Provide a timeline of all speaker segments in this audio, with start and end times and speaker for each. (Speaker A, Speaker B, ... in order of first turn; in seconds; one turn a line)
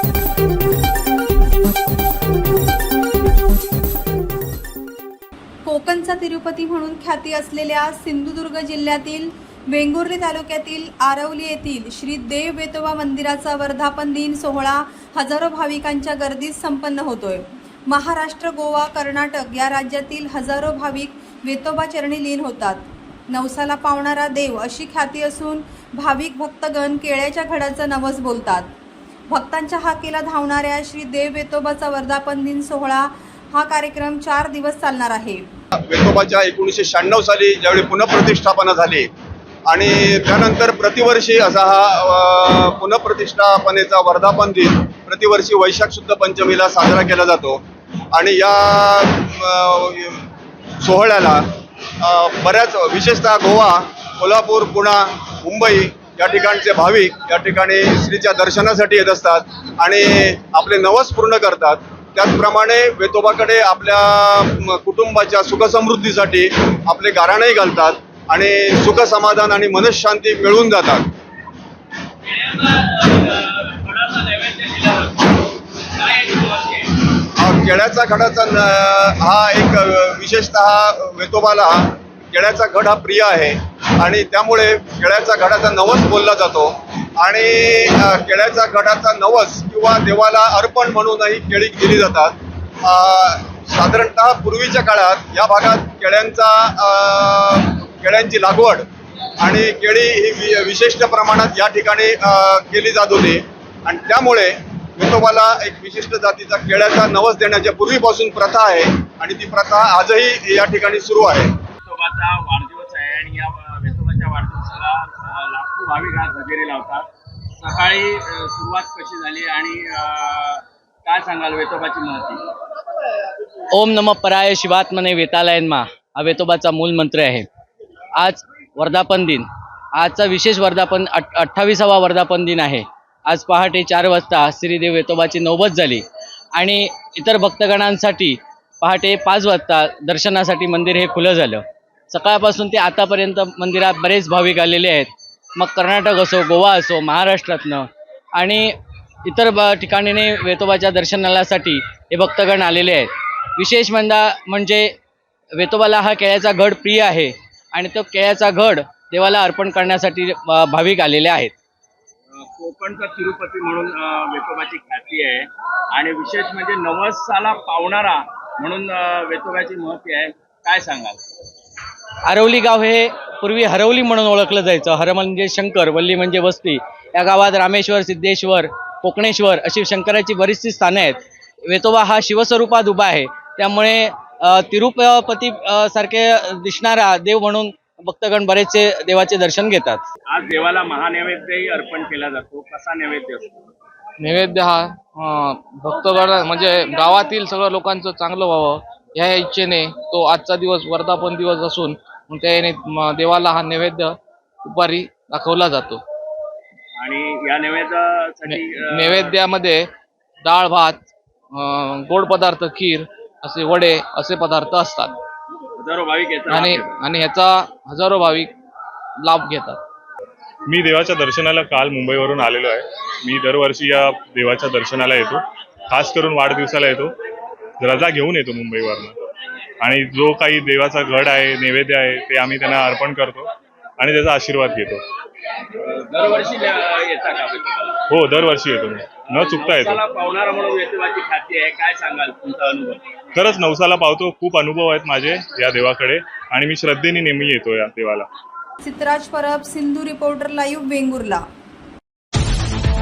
Speaker A: 5.6-28.7
Speaker A: 29.3-35.5
Speaker B: 35.8-39.1
Speaker B: 39.7-47.6
Speaker B: 48.1-50.2
Speaker B: 50.8-51.4
Speaker B: 52.0-71.1
Speaker C: 72.3-77.0
Speaker B: 77.3-98.8
Speaker B: 99.4-111.6
Speaker C: 111.8-122.6
Speaker D: 123.7-127.5
Speaker D: 128.2-136.0
Speaker D: 136.5-148.7
Speaker D: 149.2-154.9
Speaker D: 155.6-161.5
Speaker C: 162.3-171.2
Speaker D: 172.2-190.1
Speaker C: 190.3-193.6
Speaker E: 194.2-206.0
Speaker C: 206.9-209.4
Speaker E: 208.4-209.9
Speaker E: 210.4-215.2
Speaker C: 215.8-217.0
Speaker E: 216.5-218.5
Speaker E: 219.2-219.8
Speaker F: 220.7-227.1
Speaker F: 227.8-229.2
Speaker F: 229.8-235.0
Speaker C: 235.8-238.0
Speaker F: 238.1-240.0
Speaker C: 239.2-243.0
Speaker F: 243.3-248.3
Speaker A: 248.8-251.4